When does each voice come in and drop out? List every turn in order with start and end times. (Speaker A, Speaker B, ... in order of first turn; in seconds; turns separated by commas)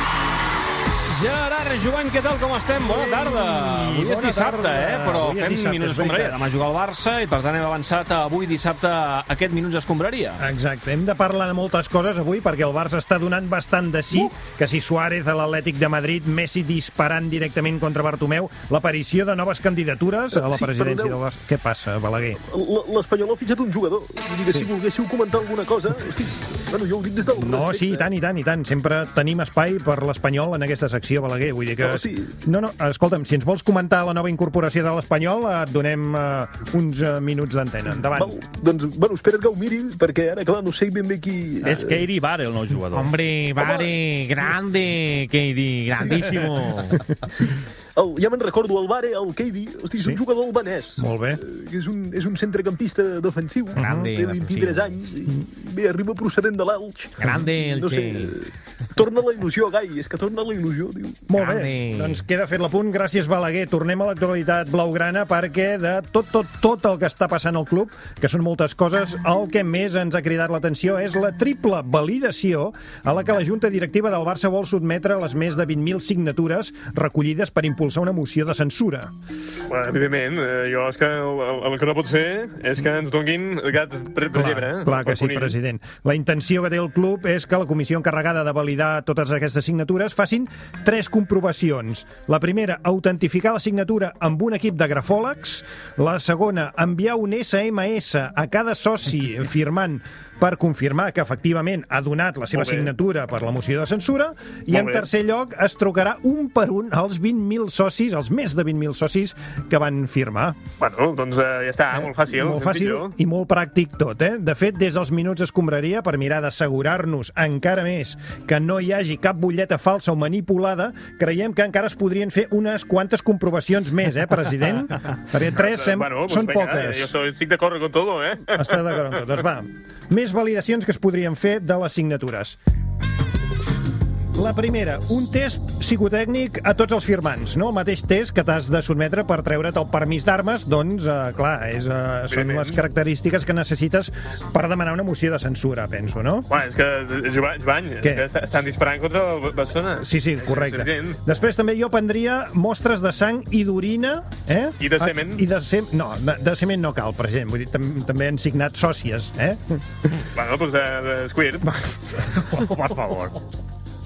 Speaker A: 1.1-10.4, Speaker B: 2.8-6.5, Speaker B: 10.4-22.4, Speaker C: 20.3-21.2, Speaker C: 22.4-28.1, Speaker B: 27.4-38.3, Speaker C: 31.8-32.3, Speaker C: 38.1-42.0, Speaker D: 41.6-43.1, Speaker E: 42.9-47.0, Speaker C: 43.6-44.0, Speaker C: 46.0-46.3, Speaker C: 47.3-61.2, Speaker B: 51.0-51.4, Speaker B: 53.8-54.1, Speaker E: 53.8-54.9, Speaker E: 57.2-58.3, Speaker B: 61.3-79.1, Speaker E: 61.3-62.2, Speaker F: 79.7-85.5, Speaker B: 84.3-110.6, Speaker F: 102.5-102.9, Speaker F: 104.7-105.1, Speaker F: 110.8-113.1, Speaker B: 111.9-127.1, Speaker F: 125.5-128.9, Speaker B: 128.5-132.6, Speaker B: 134.3-146.5, Speaker F: 142.3-142.8, Speaker F: 146.5-151.2, Speaker B: 150.0-159.6, Speaker F: 154.8-155.4, Speaker F: 160.3-161.7, Speaker D: 162.4-163.3